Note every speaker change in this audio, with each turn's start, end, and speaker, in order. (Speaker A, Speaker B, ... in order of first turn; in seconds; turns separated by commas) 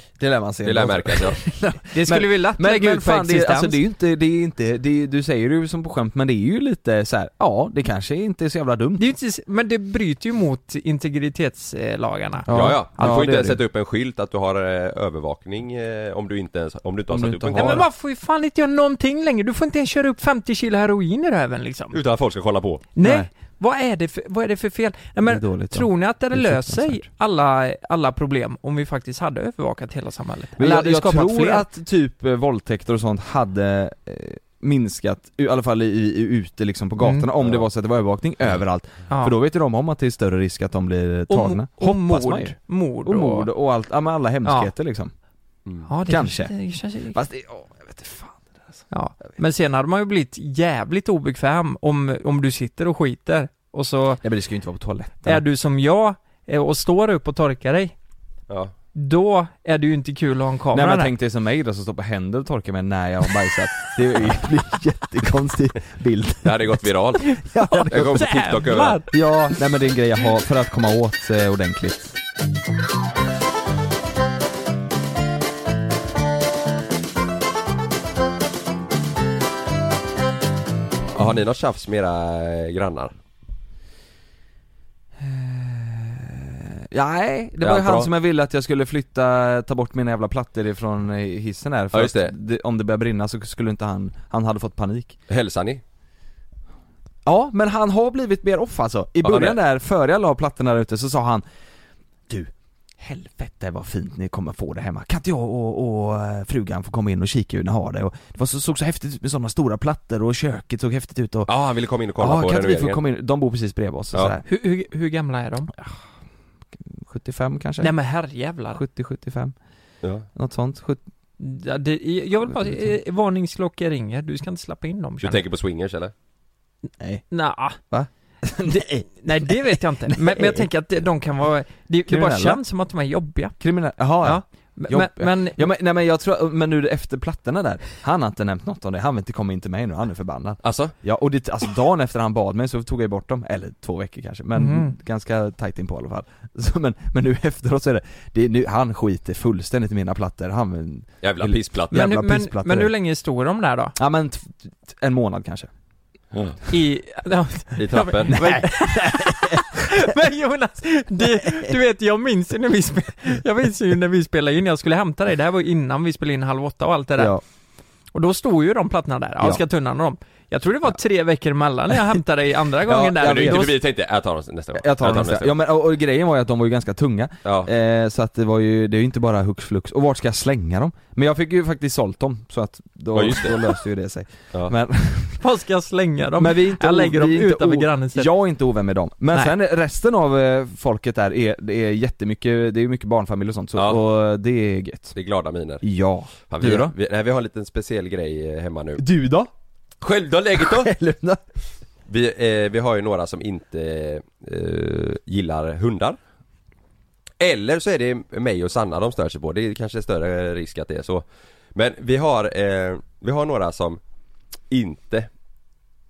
Speaker A: 0.2-9.1, Speaker B: 0.6-1.4, Speaker C: 1.9-3.8, Speaker C: 9.0-12.5, Speaker A: 12.4-13.6, Speaker B: 12.5-17.8, Speaker A: 17.1-17.9, Speaker C: 17.6-22.0, Speaker B: 21.9-22.8, Speaker C: 22.9-31.6, Speaker A: 23.0-23.3, Speaker A: 25.2-27.0, Speaker A: 30.6-45.1, Speaker C: 37.0-37.3, Speaker C: 39.1-39.3, Speaker C: 41.3-43.5, Speaker C: 44.4-44.7, Speaker C: 45.9-47.2, Speaker A: 46.0-48.9, Speaker C: 48.9-54.2, Speaker A: 54.2-55.4, Speaker C: 55.2-57.9, Speaker C: 58.9-61.1, Speaker A: 60.7-66.8, Speaker B: 66.4-67.3, Speaker C: 67.2-69.6, Speaker A: 67.4-68.4, Speaker B: 67.9-69.0, Speaker A: 69.1-72.2, Speaker B: 81.1-83.1, Speaker A: 85.2-95.2, Speaker B: 87.6-88.1, Speaker B: 91.9-92.3, Speaker B: 95.3-95.8, Speaker A: 97.2-101.4, Speaker B: 99.2-99.6, Speaker A: 102.3-111.5, Speaker B: 111.5-113.0, Speaker A: 112.2-114.4, Speaker C: 114.5-115.7, Speaker A: 116.8-117.9, Speaker C: 117.8-118.8, Speaker A: 118.7-119.5, Speaker A: 120.3-121.0, Speaker C: 121.4-125.4, Speaker A: 122.5-122.9, Speaker B: 125.2-126.1, Speaker A: 127.0-127.2, Speaker C: 127.3-127.8, Speaker A: 127.8-130.7, Speaker C: 129.2-133.6, Speaker A: 132.1-132.6, Speaker A: 133.6-152.9, Speaker C: 134.2-135.6, Speaker B: 140.6-140.9, Speaker C: 144.6-144.9, Speaker B: 151.2-151.9, Speaker C: 151.9-153.9, Speaker A: 154.0-155.7, Speaker C: 156.7-167.4, Speaker B: 157.8-158.4, Speaker A: 158.3-159.8, Speaker A: 161.4-161.7, Speaker A: 167.2-167.4, Speaker C: 168.1-173.7, Speaker A: 172.9-173.7, Speaker B: 173.2-175.5, Speaker A: 174.7-185.4, Speaker B: 177.4-177.7, Speaker B: 183.1-183.8, Speaker C: 185.4-188.3, Speaker A: 186.4-195.1, Speaker B: 193.7-194.0, Speaker B: 195.1-195.9, Speaker A: 195.8-196.9, Speaker B: 196.4-199.0, Speaker A: 199.0-199.5, Speaker B: 200.0-200.9, Speaker A: 200.6-201.4, Speaker B: 202.1-206.2, Speaker B: 207.4-214.0, Speaker B: 214.7-215.3